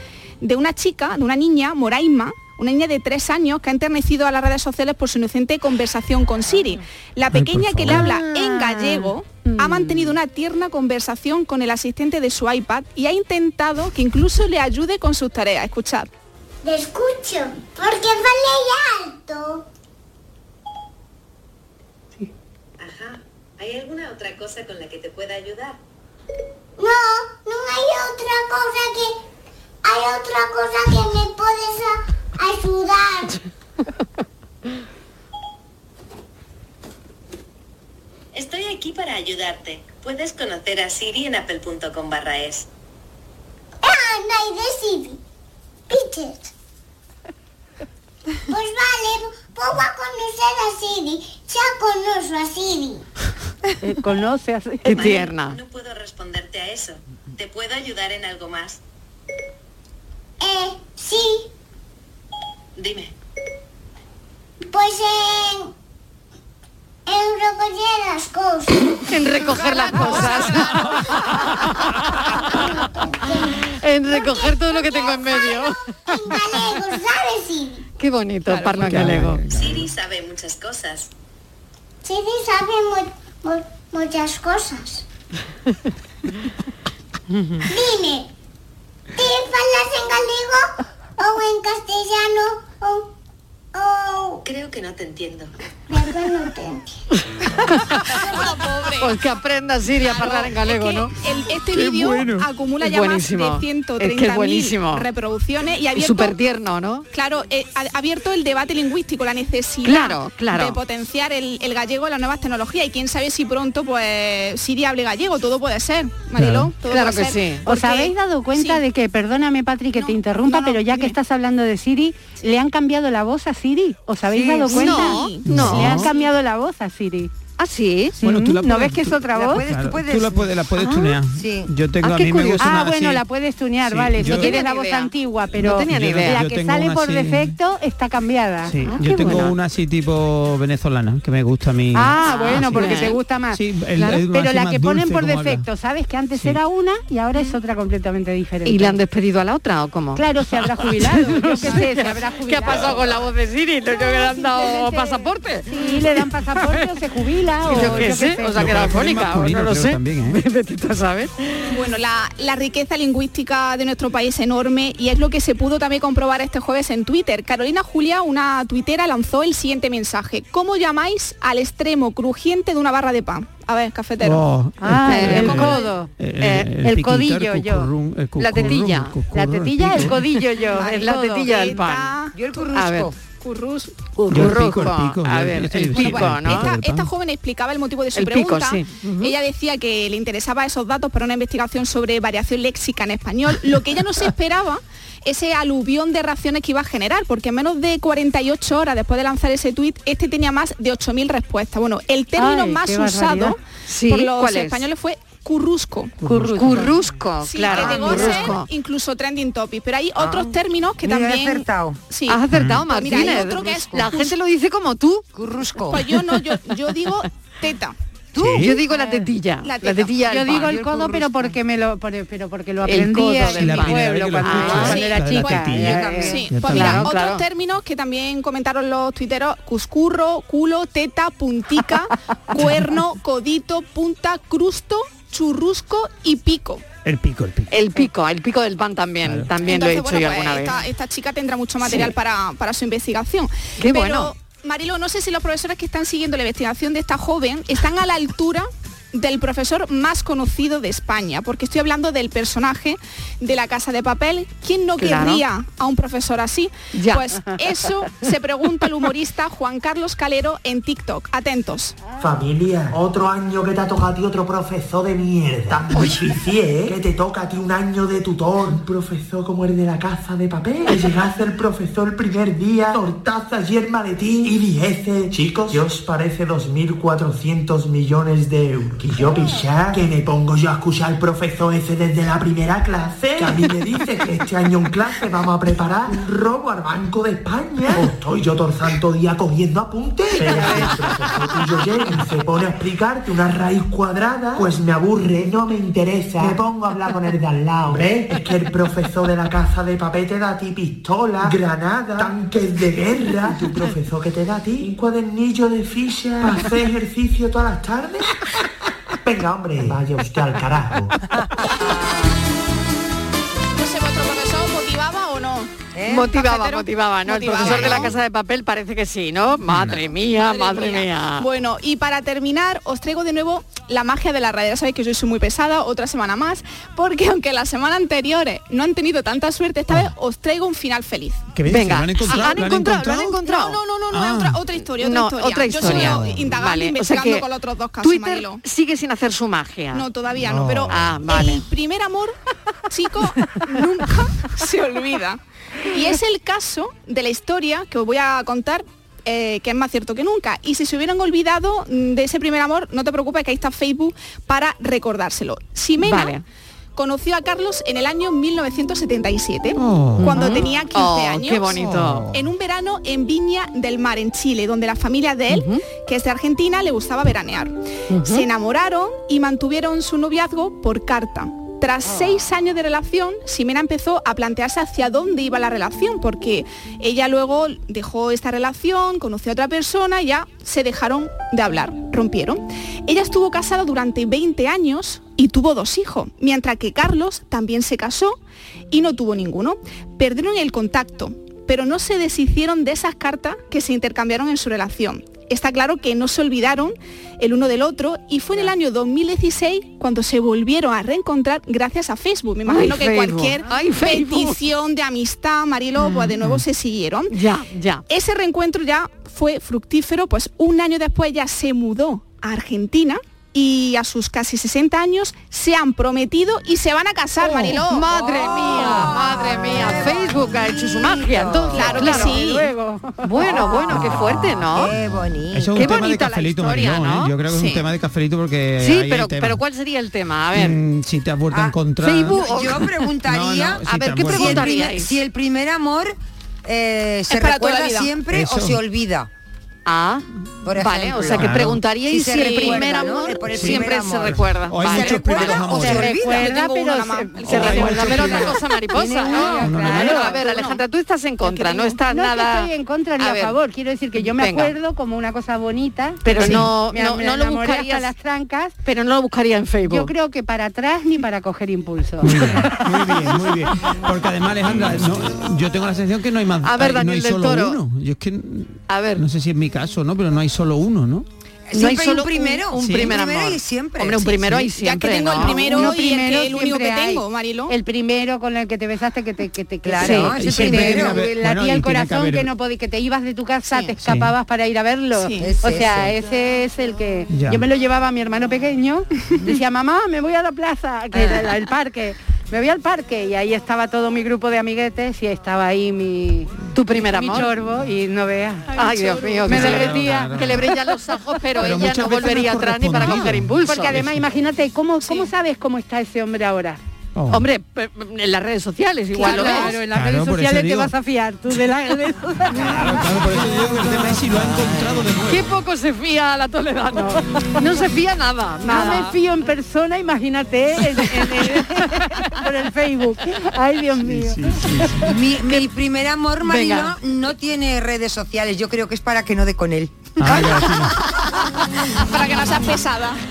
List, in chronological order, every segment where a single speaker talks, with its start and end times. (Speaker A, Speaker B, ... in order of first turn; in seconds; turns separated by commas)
Speaker A: 0.4-16.1, Speaker B: 7.3-8.1, Speaker C: 7.9-10.2, Speaker D: 16.6-19.6, Speaker E: 22.8-25.8, Speaker D: 26.8-29.2, Speaker D: 29.8-33.4, Speaker E: 38.3-42.7, Speaker D: 43.8-45.2, Speaker D: 45.9-46.5, Speaker D: 48.5-53.0, Speaker C: 53.8-55.1, Speaker F: 54.8-55.6, Speaker E: 54.9-58.8, Speaker D: 60.4-61.5, Speaker E: 62.8-63.1, Speaker D: 64.7-65.7, Speaker D: 67.1-69.1, Speaker F: 69.1-72.7, Speaker D: 70.2-71.0, Speaker D: 72.4-77.8, Speaker F: 73.2-75.8, Speaker F: 78.0-79.4, Speaker B: 78.5-79.9, Speaker E: 79.5-81.1, Speaker D: 82.0-85.0, Speaker D: 87.7-88.3, Speaker D: 89.2-93.1, Speaker D: 93.7-94.4, Speaker E: 94.4-95.5, Speaker D: 95.9-96.9, Speaker F: 97.5-98.2, Speaker A: 98.1-99.1, Speaker F: 99.0-101.1, Speaker A: 100.0-106.4, Speaker B: 101.7-102.5, Speaker F: 102.8-105.0, Speaker F: 106.0-107.0, Speaker A: 107.1-118.8, Speaker F: 109.8-110.8, Speaker B: 116.4-116.7, Speaker F: 116.9-117.6, Speaker C: 117.6-127.3, Speaker A: 119.9-121.2, Speaker F: 124.3-126.1, Speaker A: 124.7-126.3, Speaker B: 125.4-126.1, Speaker F: 127.6-128.2, Speaker B: 128.2-133.2, Speaker C: 128.2-129.7, Speaker G: 129.3-130.5, Speaker F: 130.8-131.2, Speaker G: 131.3-131.7, Speaker F: 132.0-132.8, Speaker C: 132.6-138.8, Speaker B: 133.8-134.6, Speaker F: 134.2-136.4, Speaker B: 135.9-137.6, Speaker B: 138.7-145.7, Speaker F: 138.8-139.6, Speaker C: 141.9-149.0, Speaker F: 142.2-143.2, Speaker B: 146.3-146.6, Speaker F: 148.6-150.2, Speaker C: 150.1-153.2, Speaker F: 151.0-156.8, Speaker C: 153.9-158.9, Speaker B: 157.6-160.4, Speaker F: 157.7-161.5, Speaker A: 161.7-174.4, Speaker B: 174.2-180.2, Speaker C: 174.8-176.1, Speaker F: 175.1-175.8, Speaker A: 175.2-175.9, Speaker F: 176.4-176.7, Speaker C: 176.8-177.9, Speaker F: 178.4-179.1, Speaker C: 179.3-181.5, Speaker F: 179.9-182.1, Speaker A: 180.7-182.4, Speaker G: 182.3-183.1, Speaker F: 182.7-183.1, Speaker A: 183.4-183.9, Speaker F: 184.2-186.7, Speaker B: 184.3-187.1, Speaker A: 185.9-206.2, Speaker F: 188.1-189.3, Speaker C: 202.3-203.6, Speaker F: 203.8-204.8, Speaker B: 206.2-206.9, Speaker F: 206.2-208.7, Speaker A: 207.4-214.3, Speaker G: 210.2-210.5, Speaker G: 211.0-212.0, Speaker F: 212.3-215.2, Speaker B: 212.5-212.8, Speaker G: 215.3-216.0, Speaker A: 215.9-217.9, Speaker F: 218.3-221.1, Speaker B: 218.4-218.7, Speaker C: 218.9-219.3, Speaker A: 219.6-220.9, Speaker C: 220.2-226.5, Speaker F: 222.8-225.0, Speaker B: 223.5-227.1, Speaker A: 224.6-236.8, Speaker F: 226.7-227.4, Speaker B: 237.0-237.7, Speaker F: 237.7-240.8, Speaker B: 239.2-239.5, Speaker A: 239.6-261.9, Speaker F: 241.8-242.1, Speaker F: 243.8-244.3, Speaker F: 255.0-255.4, Speaker F: 256.9-257.2, Speaker H: 262.2-308.3, Speaker C: 290.4-291.2, Speaker H: 309.2-311.1, Speaker A: 313.7-315.7, Speaker G: 315.9-316.3, Speaker F: 316.1-321.4, Speaker A: 316.3-318.1, Speaker A: 320.4-331.4, Speaker B: 331.5-333.4, Speaker F: 331.7-333.8, Speaker A: 332.2-332.5, Speaker A: 333.4-338.6, Speaker B: 334.1-334.6, Speaker F: 335.0-337.4, Speaker B: 335.8-336.4, Speaker F: 338.0-340.0, Speaker A: 339.9-342.3, Speaker B: 340.4-341.0, Speaker F: 340.9-341.6, Speaker A: 342.9-356.4, Speaker F: 356.0-356.4, Speaker A: 356.9-388.4, Speaker B: 359.8-360.6, Speaker F: 360.2-362.3, Speaker B: 361.8-362.3, Speaker F: 365.5-365.8, Speaker F: 368.1-368.4, Speaker A: 388.9-407.3, Speaker F: 402.6-404.6, Speaker F: 406.0-406.5, Speaker F: 407.3-408.0, Speaker A: 408.1-418.1, Speaker F: 417.4-422.4, Speaker G: 418.1-421.9, Speaker A: 421.7-422.7, Speaker C: 421.8-424.1, Speaker F: 423.2-424.9, Speaker G: 423.9-425.8, Speaker B: 425.5-429.6, Speaker F: 425.7-427.8, Speaker F: 428.8-430.8, Speaker B: 430.5-432.7, Speaker G: 431.5-439.3, Speaker F: 432.0-432.9, Speaker B: 433.2-434.8, Speaker F: 433.8-435.1, Speaker A: 437.3-438.1, Speaker B: 438.3-438.8, Speaker F: 439.9-440.2, Speaker G: 440.6-446.5, Speaker F: 440.7-445.4, Speaker B: 441.3-441.8, Speaker B: 443.5-444.0, Speaker B: 444.7-446.1, Speaker A: 445.4-448.5, Speaker C: 445.6-447.9, Speaker F: 447.4-453.6, Speaker B: 447.4-448.6, Speaker C: 448.9-450.6, Speaker B: 449.5-450.3, Speaker A: 450.4-450.8, Speaker C: 451.5-458.7, Speaker F: 454.1-454.7, Speaker F: 456.2-458.1, Speaker F: 458.8-460.1, Speaker C: 459.9-463.4, Speaker B: 462.2-471.2, Speaker F: 466.6-467.8, Speaker F: 468.9-469.2, Speaker G: 471.7-474.5, Speaker F: 471.7-475.9, Speaker A: 474.8-477.7, Speaker C: 475.4-500.4, Speaker G: 479.8-481.3, Speaker F: 480.0-480.3, Speaker B: 480.3-482.5, Speaker B: 484.0-484.3, Speaker A: 485.1-485.5, Speaker G: 485.4-486.1, Speaker B: 487.3-487.6, Speaker F: 491.1-491.4, Speaker F: 496.7-497.5, Speaker F: 498.7-504.0, Speaker B: 499.4-500.7, Speaker B: 501.6-504.2, Speaker C: 503.6-506.8, Speaker B: 507.1-507.4, Speaker F: 507.3-509.8, Speaker C: 509.1-513.3, Speaker B: 509.3-510.9, Speaker B: 512.5-515.4, Speaker F: 515.2-519.1, Speaker C: 518.6-524.6, Speaker B: 524.0-525.0, Speaker G: 525.0-530.6, Speaker F: 526.4-526.9, Speaker B: 530.2-531.0, Speaker A: 531.9-533.2